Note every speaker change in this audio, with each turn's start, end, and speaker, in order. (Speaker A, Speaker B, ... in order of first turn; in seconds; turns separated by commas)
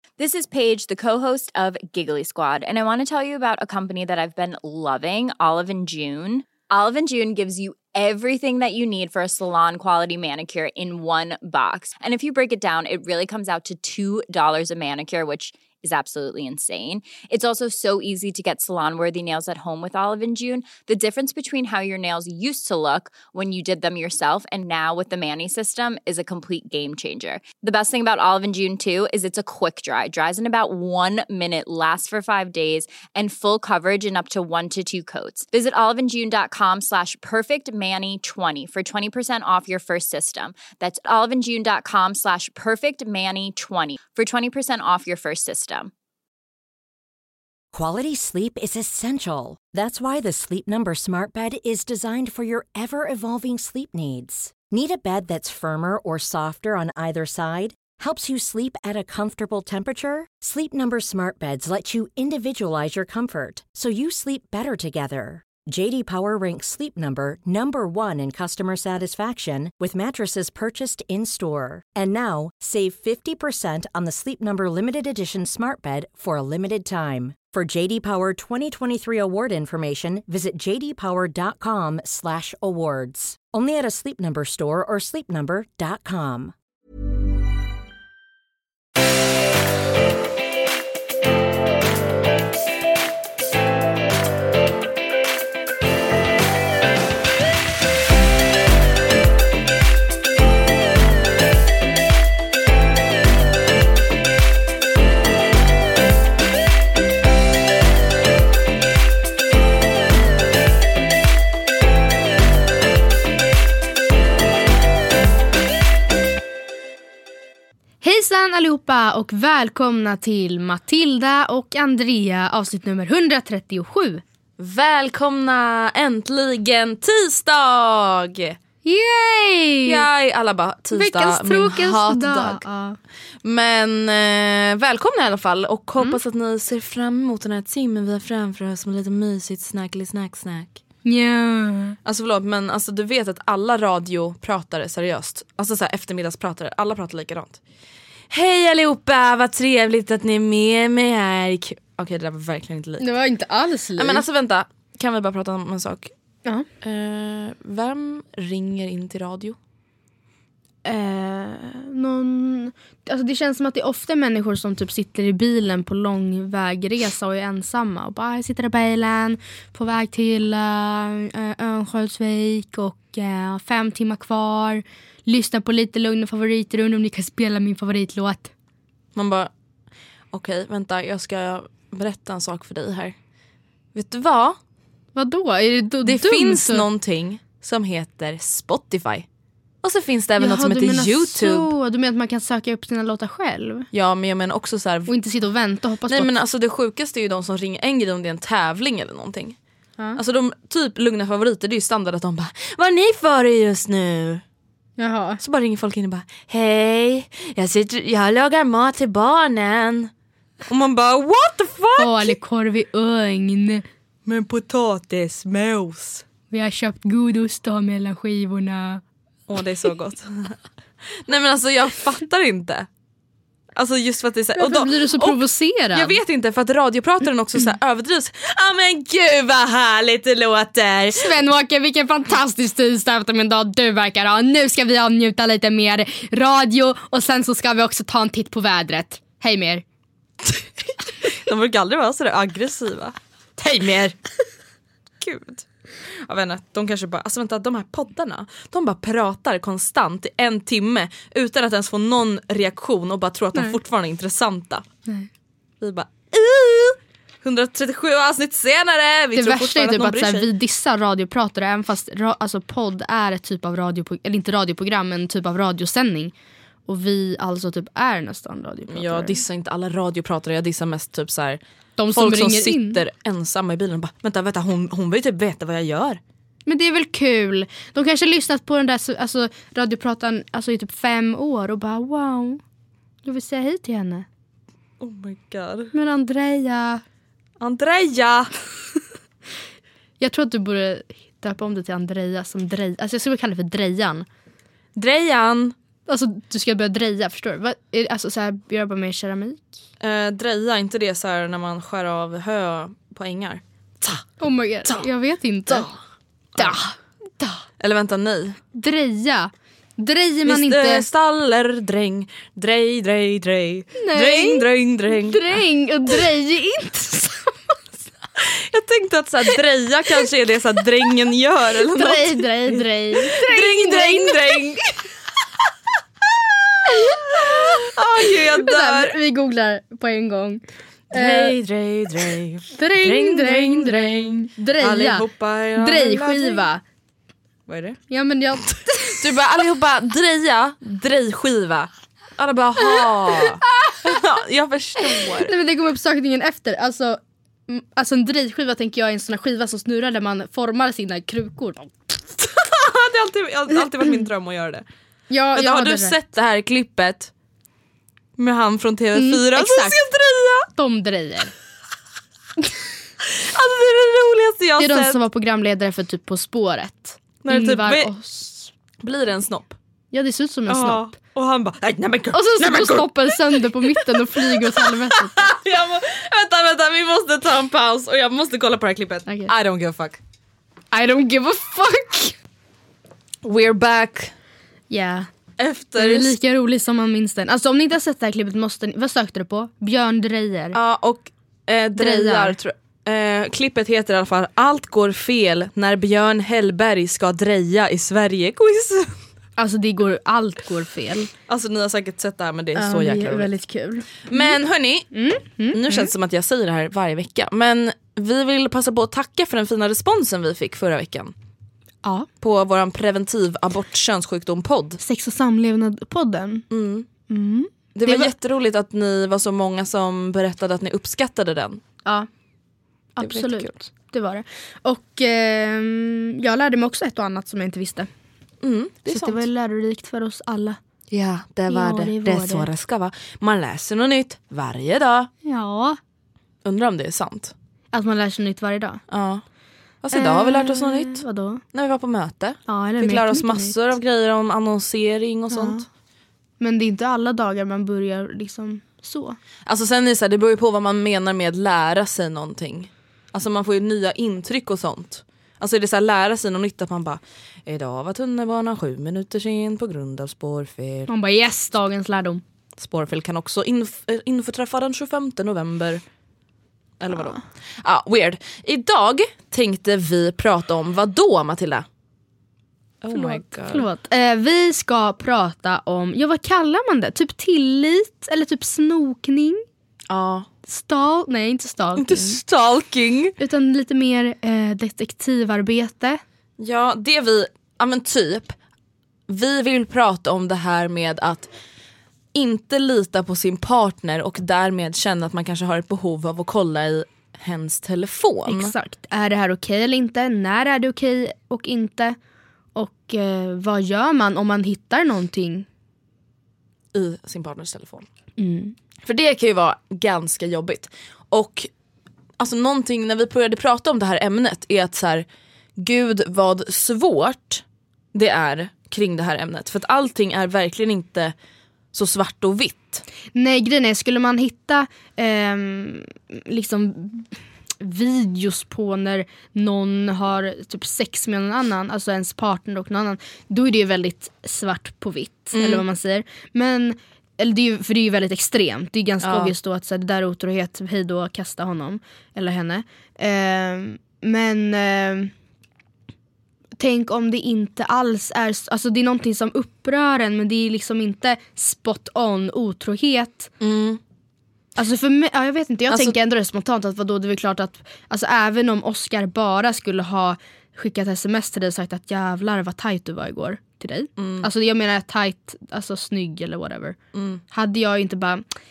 Speaker A: 0.2-45.9, Speaker B: 47.7-86.5, Speaker C: 118.0-124.2, Speaker D: 124.6-128.6, Speaker C: 128.8-130.0, Speaker D: 129.9-132.6, Speaker C: 130.9-133.0, Speaker D: 133.4-140.8, Speaker C: 141.1-142.0, Speaker D: 142.1-147.6, Speaker D: 148.3-153.1, Speaker C: 153.0-154.2, Speaker D: 154.0-156.1, Speaker D: 156.8-159.6, Speaker C: 160.8-178.5, Speaker D: 179.2-179.5, Speaker D: 180.3-183.2, Speaker D: 183.9-184.6, Speaker C: 185.2-186.8, Speaker D: 186.0-189.3, Speaker D: 189.8-191.7, Speaker C: 190.4-193.9, Speaker D: 193.9-195.1, Speaker C: 195.1-196.3, Speaker D: 196.1-199.6, Speaker D: 200.2-204.4, Speaker C: 205.0-205.4, Speaker D: 205.4-210.1, Speaker D: 210.7-212.3, Speaker C: 212.0-213.8, Speaker D: 214.3-216.2, Speaker C: 216.5-219.0, Speaker D: 219.5-220.6, Speaker D: 221.3-222.9, Speaker D: 223.8-225.4, Speaker C: 224.6-226.2, Speaker D: 225.9-231.3, Speaker C: 231.2-239.8, Speaker D: 241.2-244.2, Speaker D: 245.2-245.7, Speaker D: 246.2-254.8, Speaker D: 255.8-260.5, Speaker C: 259.4-266.3, Speaker C: 266.9-269.4, Speaker D: 268.9-271.6, Speaker C: 272.0-273.0, Speaker D: 272.1-276.2, Speaker C: 276.7-282.6, Speaker C: 283.2-284.3, Speaker D: 285.0-285.9, Speaker C: 285.9-287.0, Speaker D: 287.6-288.5, Speaker C: 290.2-294.3, Speaker D: 295.0-295.8, Speaker C: 296.1-299.6, Speaker D: 300.0-304.2, Speaker C: 304.4-305.9, Speaker D: 305.7-306.0, Speaker D: 306.6-306.8, Speaker C: 306.6-307.6, Speaker D: 307.8-308.6, Speaker C: 308.7-311.0, Speaker D: 310.4-315.6, Speaker C: 314.0-317.8, Speaker D: 318.4-325.1, Speaker C: 321.9-324.6, Speaker C: 326.9-327.4, Speaker D: 327.1-329.1, Speaker C: 328.2-331.6, Speaker D: 331.1-336.7, Speaker C: 332.7-336.8, Speaker D: 337.7-338.0, Speaker C: 338.1-339.2, Speaker D: 339.2-345.5, Speaker C: 342.8-344.0, Speaker C: 345.1-352.4, Speaker D: 352.6-354.9, Speaker C: 355.3-356.1, Speaker D: 355.6-357.3, Speaker D: 358.4-360.7, Speaker C: 359.1-360.0, Speaker C: 360.8-361.5, Speaker D: 363.2-365.2, Speaker C: 364.8-368.7, Speaker D: 367.4-368.1, Speaker D: 369.0-369.8, Speaker C: 370.1-371.1, Speaker D: 370.7-380.2, Speaker C: 372.3-375.5, Speaker C: 379.3-379.5, Speaker C: 380.9-382.4, Speaker D: 383.4-384.3, Speaker C: 384.9-385.3, Speaker D: 385.6-386.4, Speaker C: 386.0-390.8, Speaker D: 390.7-399.2, Speaker C: 392.0-392.6, Speaker C: 399.6-401.3, Speaker D: 401.5-403.5, Speaker C: 402.8-404.6, Speaker D: 404.3-405.1, Speaker C: 405.1-406.1, Speaker D: 405.7-411.3, Speaker D: 412.4-415.0, Speaker C: 415.0-416.6, Speaker D: 416.7-417.1, Speaker C: 417.3-418.3, Speaker D: 417.9-421.8, Speaker C: 423.2-428.1, Speaker D: 423.2-423.8, Speaker D: 428.6-429.4, Speaker C: 429.1-430.8, Speaker D: 431.1-435.3, Speaker C: 431.7-432.7, Speaker C: 435.4-436.0, Speaker D: 436.6-437.5, Speaker C: 437.9-439.0, Speaker D: 439.1-439.4, Speaker D: 440.0-445.8, Speaker C: 440.1-441.6, Speaker C: 442.7-443.8, Speaker C: 445.5-445.9, Speaker C: 446.6-449.4, Speaker D: 449.7-461.1, Speaker C: 461.1-462.4, Speaker D: 462.8-466.0, Speaker D: 467.0-471.9, Speaker D: 473.0-473.9, Speaker C: 473.1-479.6, Speaker D: 480.1-480.5, Speaker C: 480.7-482.4, Speaker D: 482.0-483.4, Speaker C: 483.4-486.2, Speaker D: 486.6-488.6, Speaker D: 489.3-491.5, Speaker D: 492.3-498.7, Speaker C: 498.5-502.2, Speaker C: 502.8-505.7, Speaker D: 506.9-508.1, Speaker C: 508.4-508.8, Speaker D: 509.1-511.7, Speaker D: 512.4-515.3, Speaker D: 515.8-517.6, Speaker D: 518.1-521.3, Speaker D: 521.9-523.0, Speaker C: 523.3-545.3, Speaker D: 535.5-535.8, Speaker D: 539.2-539.5, Speaker C: 546.8-553.5, Speaker D: 553.6-554.0, Speaker C: 554.8-567.0, Speaker D: 564.2-564.5, Speaker D: 567.1-567.4, Speaker C: 567.5-568.5